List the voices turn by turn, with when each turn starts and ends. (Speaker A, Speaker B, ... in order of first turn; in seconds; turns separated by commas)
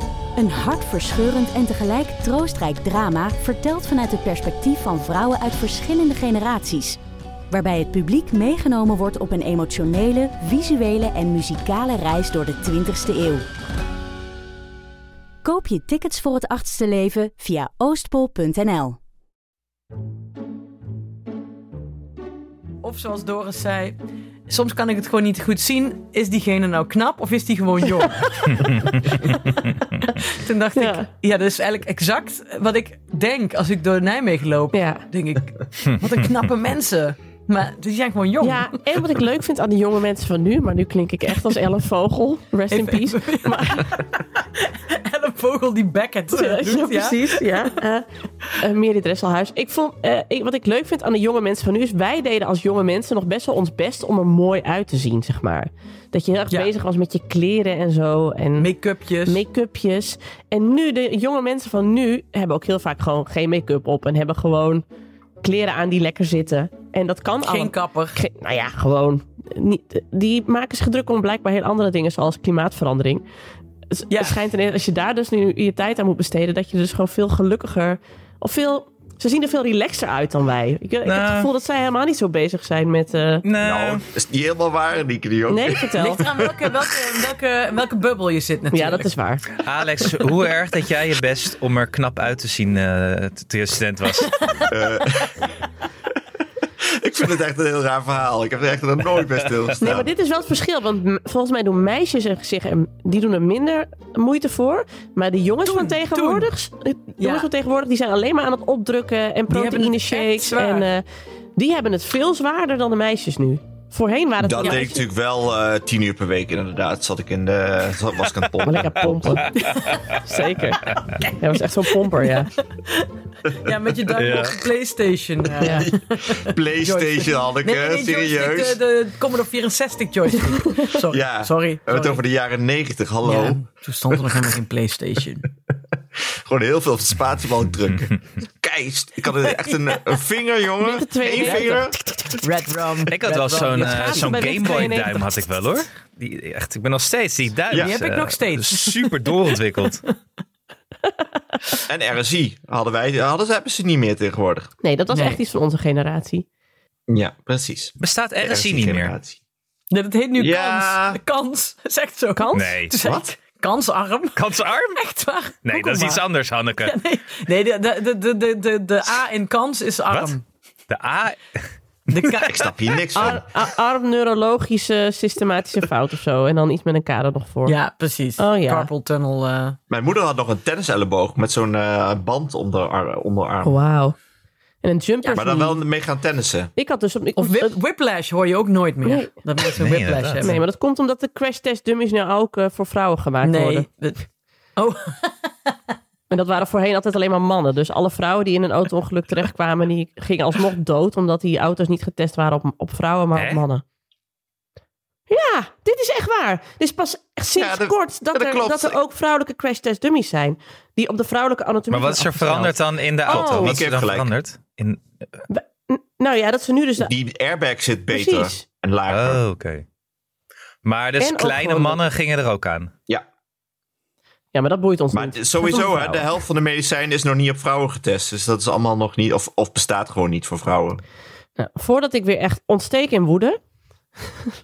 Speaker A: 0.4-7.0, Speaker A: 7.5-13.4, Speaker A: 15.4-19.0, Speaker B: 22.8-24.0, Speaker B: 24.5-29.3, Speaker C: 28.5-29.7, Speaker B: 30.1-38.8, Speaker D: 30.8-31.0, Speaker D: 34.7-35.0, Speaker D: 38.4-44.0, Speaker B: 42.7-47.4, Speaker D: 46.3-48.1, Speaker D: 48.6-58.7, Speaker B: 58.6-59.4, Speaker D: 59.3-64.8, Speaker D: 65.4-73.2, Speaker B: 67.4-68.2, Speaker D: 73.9-83.4, Speaker B: 74.1-74.4, Speaker C: 81.0-81.5, Speaker C: 83.4-84.0, Speaker E: 83.6-87.2, Speaker D: 85.5-86.2, Speaker B: 86.0-89.1, Speaker D: 88.7-89.4, Speaker C: 89.6-94.4, Speaker B: 94.2-94.7, Speaker E: 94.7-95.5, Speaker E: 96.8-100.1, Speaker D: 99.8-111.0, Speaker B: 105.7-106.5, Speaker B: 107.2-107.5, Speaker B: 109.5-110.9, Speaker D: 111.5-115.0, Speaker E: 114.4-119.4, Speaker D: 118.6-119.5, Speaker C: 119.6-120.2, Speaker B: 119.6-120.0, Speaker D: 120.2-122.5, Speaker B: 122.2-132.2, Speaker C: 124.1-124.6, Speaker E: 125.6-128.8, Speaker E: 131.1-134.3, Speaker B: 133.2-135.5, Speaker E: 136.1-142.1, Speaker D: 140.8-141.9, Speaker B: 141.4-141.8, Speaker B: 142.3-144.9, Speaker C: 143.1-150.0, Speaker D: 143.8-145.4, Speaker B: 147.7-149.9, Speaker E: 151.9-154.7, Speaker D: 154.8-156.4, Speaker B: 155.1-155.4, Speaker E: 157.1-159.4, Speaker C: 158.0-159.1, Speaker B: 159.9-166.2, Speaker E: 160.4-161.2, Speaker D: 162.3-162.8, Speaker C: 162.5-162.9, Speaker E: 163.0-163.3, Speaker C: 164.3-165.0, Speaker C: 165.6-166.9, Speaker B: 166.8-170.4, Speaker C: 170.9-171.6, Speaker B: 172.1-172.7, Speaker E: 172.3-173.4, Speaker D: 173.1-177.8, Speaker B: 177.7-179.8, Speaker D: 178.4-178.9, Speaker E: 179.9-183.8, Speaker D: 183.6-184.1, Speaker D: 184.8-185.8, Speaker E: 185.3-186.7, Speaker D: 186.8-187.7, Speaker B: 187.4-190.6, Speaker C: 189.7-190.5, Speaker D: 190.4-193.9, Speaker B: 193.4-194.2, Speaker B: 194.8-195.5, Speaker D: 196.3-203.8, Speaker C: 203.3-203.6, Speaker D: 205.3-213.8, Speaker E: 207.6-209.0, Speaker C: 211.9-215.0, Speaker E: 213.3-214.3, Speaker D: 215.5-217.1, Speaker E: 217.0-219.4, Speaker D: 218.1-218.6, Speaker C: 219.1-219.8, Speaker C: 220.8-222.9, Speaker D: 221.2-222.0, Speaker D: 224.5-226.2, Speaker E: 225.1-231.0, Speaker D: 231.6-233.6